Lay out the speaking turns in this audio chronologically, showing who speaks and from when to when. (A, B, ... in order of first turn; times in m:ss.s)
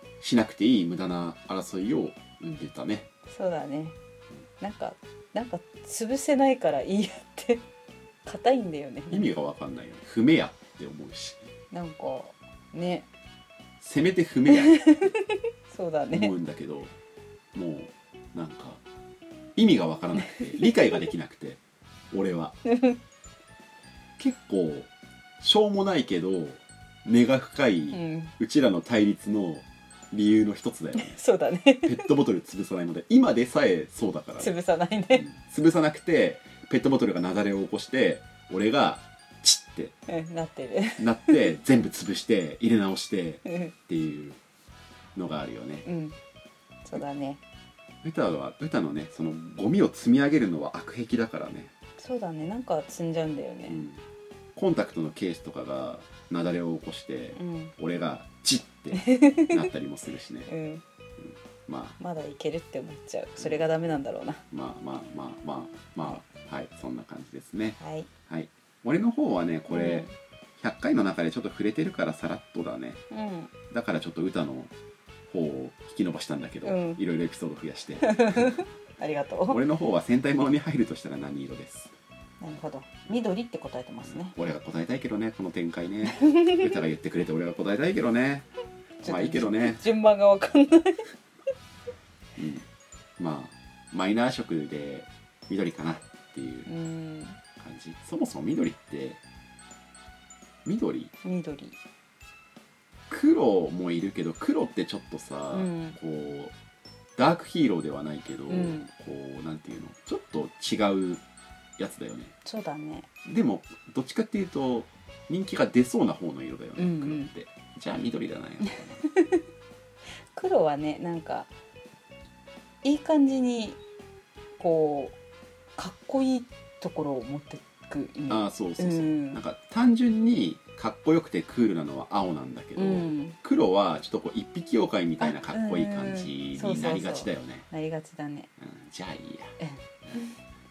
0:00.2-0:03.1 A
0:03.3-0:04.0 B
0:04.6-0:07.6 B
0:08.2-0:09.3 B
0:09.1-0:11.4 A
0:11.7-0:13.1 B
0:13.8-0:15.1 A
0:14.5-0:16.3 B
0:16.1-0:16.9 A
0:17.5-0:18.8 A
0:19.6-0:22.6 A
0:22.7-0:23.0 B
0:24.2-0:31.2 A
0:27.9-0:28.3 B
0:31.0-0:32.1 B
0:31.8-0:34.5 A
0:34.4-0:35.3 B
0:35.2-0:40.0 A
0:40.1-0:41.4 B
0:41.0-0:44.4 A
0:43.5-0:43.7 B
0:45.2-0:45.8 A
0:45.8-0:46.2 B
0:46.8-0:47.4 B
0:48.0-0:51.7 A
0:52.0-0:53.8 B
0:53.7-0:54.0 A
0:54.6-1:00.5 A
0:57.4-0:57.7 B
0:58.9-0:59.7 B
1:00.5-1:00.8 B
1:01.2-1:02.0 A
1:02.0-1:04.4 B
1:03.4-1:03.7 A
1:04.5-1:07.8 A
1:07.8-1:08.1 B
1:08.3-1:10.1 A
1:09.7-1:10.1 B
1:10.6-1:13.0 A
1:13.1-1:13.5 B
1:13.7-1:14.7 A
1:15.3-1:18.6 A
1:16.6-1:17.0 B
1:18.0-1:19.6 B
1:19.5-1:21.9 A
1:22.4-1:24.4 B
1:24.1-1:28.5 A
1:26.1-1:26.7 B
1:29.0-1:31.1 B
1:29.0-1:29.8 A
1:32.4-1:32.7 A
1:33.2-1:36.7 A
1:36.7-1:37.4 B
1:37.6-1:39.2 A
1:40.6-1:41.1 A
1:41.2-1:41.8 B
1:43.1-1:46.5 A
1:45.5-1:46.0 B
1:47.2-1:51.2 A
1:48.5-1:48.9 B
1:51.8-1:52.3 A
1:52.4-1:53.1 B
1:53.3-1:59.0 A
1:56.8-1:57.3 B
1:58.7-1:59.4 B
2:00.3-2:01.5 B
2:02.8-2:03.8 B
2:04.6-2:05.2 B
2:05.8-2:09.4 B
2:08.3-2:17.6 A
2:12.8-2:13.4 B
2:15.2-2:18.5 B
2:18.6-2:19.6 A
2:19.6-2:20.4 B